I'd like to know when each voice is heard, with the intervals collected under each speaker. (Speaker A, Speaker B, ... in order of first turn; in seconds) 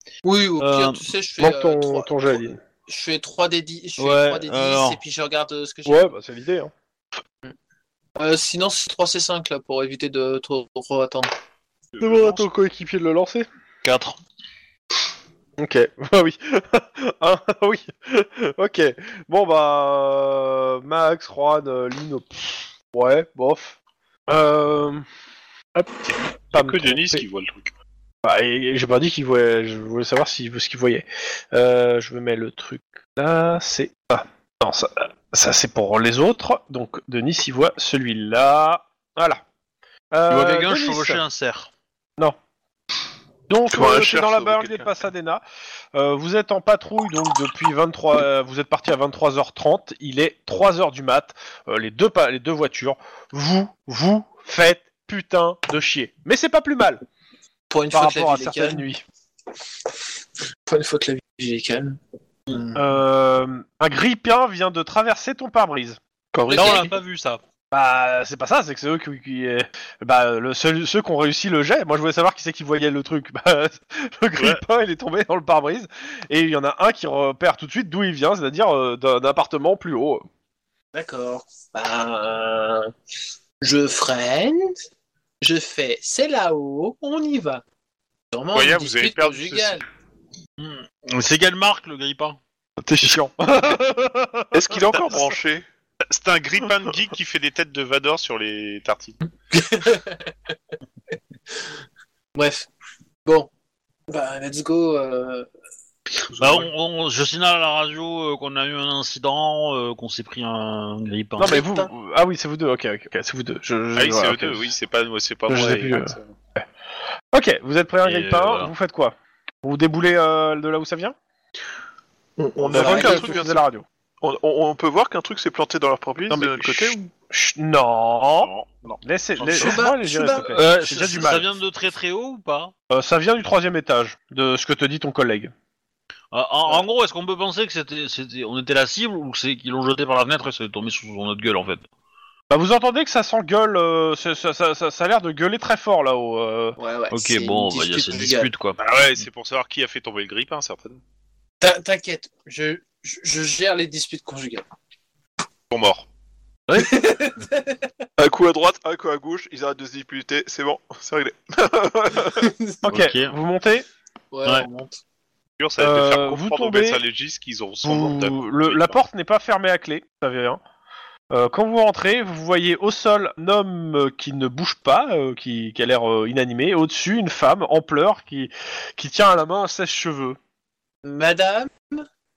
Speaker A: 0.2-6.1, 8.2-11.3, 57.7-58.8, 60.6-63.0, 66.5-66.9, 80.9-82.9, 83.6-84.8, 85.4-87.6, 88.3-89.8, 99.5-100.5, 102.3-102.7, 103.2-103.5, 104.1-105.5, 111.4-111.9, 122.7-123.3, 129.5-130.7, 146.8-148.5, 151.6-154.7, 156.7-158.0, 162.2-162.8, 164.3-165.0, 181.0-182.1
Speaker B: 0.6-1.1, 4.0-5.0, 13.8-14.2, 40.3-41.7, 66.5-67.4, 90.6-92.4, 106.3-111.6, 118.0-118.7, 130.4-132.7, 136.3-141.8, 147.1-148.8, 162.9-163.3
Speaker C: 1.4-2.6, 5.8-6.7, 12.0-13.4, 15.6-23.8, 24.3-25.0, 26.5-27.2, 28.2-39.4, 40.1-41.2, 43.5-45.4, 45.9-57.0, 57.9-59.0, 62.7-66.0, 67.7-80.2, 92.8-95.3, 111.4-114.6, 115.5-116.6, 117.3-121.1, 122.7-123.8, 126.2-131.4, 132.9-135.5, 142.5-146.8, 162.8-163.8, 165.8-167.0, 167.8-170.6, 171.3-180.4
Speaker D: 11.9-12.5, 26.5-27.7, 74.4-74.6, 88.5-89.8, 96.1-99.2, 114.0-116.3, 128.4-129.0, 148.8-151.0, 155.7-156.1, 165.6-168.9
Speaker E: 43.7-44.9, 66.3-66.9, 94.5-95.6, 106.3-106.7, 122.4-123.6, 124.2-127.0, 158.2-162.5